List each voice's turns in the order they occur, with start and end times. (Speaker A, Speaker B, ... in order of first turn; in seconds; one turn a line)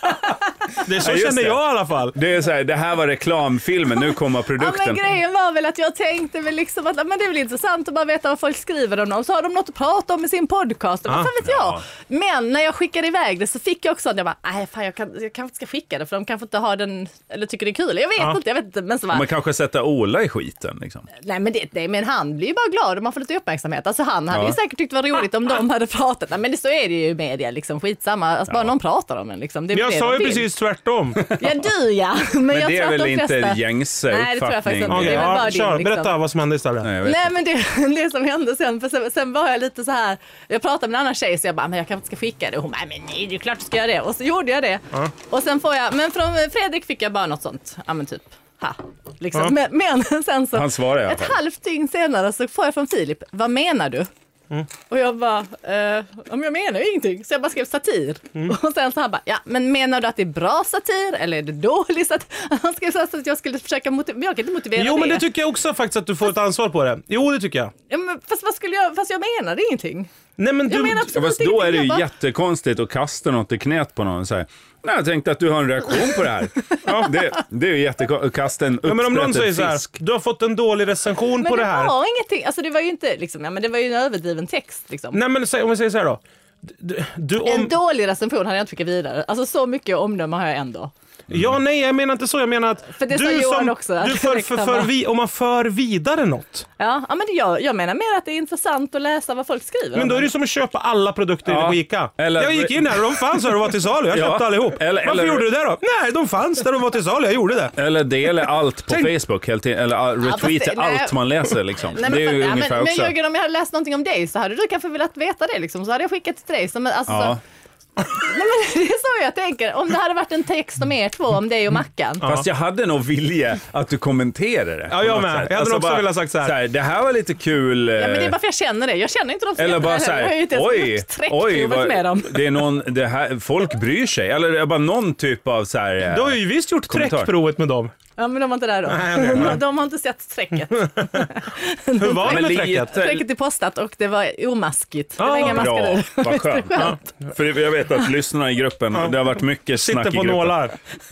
Speaker A: 0.8-2.1
Speaker B: 1.0-5.0
Speaker C: 4.6-19.3
Speaker B: 11.4-11.8
Speaker B: 19.1-21.1
Speaker C: 21.2-30.5
Speaker B: 24.3-24.6
Speaker A: 29.7-31.3
Speaker C: 31.3-36.1
Speaker B: 32.5-35.4
Speaker A: 34.9-36.9
Speaker B: 36.8-37.3
Speaker C: 37.0-54.1
Speaker B: 50.5-51.4
Speaker C: 54.9-65.2
Speaker A: 64.8-67.7
Speaker C: 67.9-70.1
Speaker A: 70.4-71.1
Speaker C: 70.7-72.1
Speaker B: 71.1-79.9
Speaker A: 76.8-77.2
Speaker A: 78.8-81.9
Speaker C: 81.4-85.2
Speaker A: 85.1-87.7
Speaker C: 87.4-90.9
Speaker A: 91.3-96.7
Speaker B: 91.3-91.6
Speaker C: 92.9-94.9
Speaker C: 96.8-100.3
Speaker A: 99.9-107.8
Speaker B: 101.5-103.2
Speaker B: 104.1-105.5
Speaker B: 107.8-113.2
Speaker C: 110.2-111.2
Speaker C: 111.9-117.4
Speaker B: 117.1-117.4
Speaker C: 118.0-122.3
Speaker A: 122.2-122.5
Speaker B: 122.2-128.4
Speaker A: 124.9-126.6
Speaker C: 128.0-132.6
Speaker B: 129.6-137.3
Speaker A: 136.1-137.9
Speaker C: 138.2-147.0
Speaker A: 138.9-139.6
Speaker A: 142.0-143.0
Speaker B: 142.2-143.2
Speaker A: 145.2-145.8
Speaker B: 145.3-150.7
Speaker A: 149.8-150.8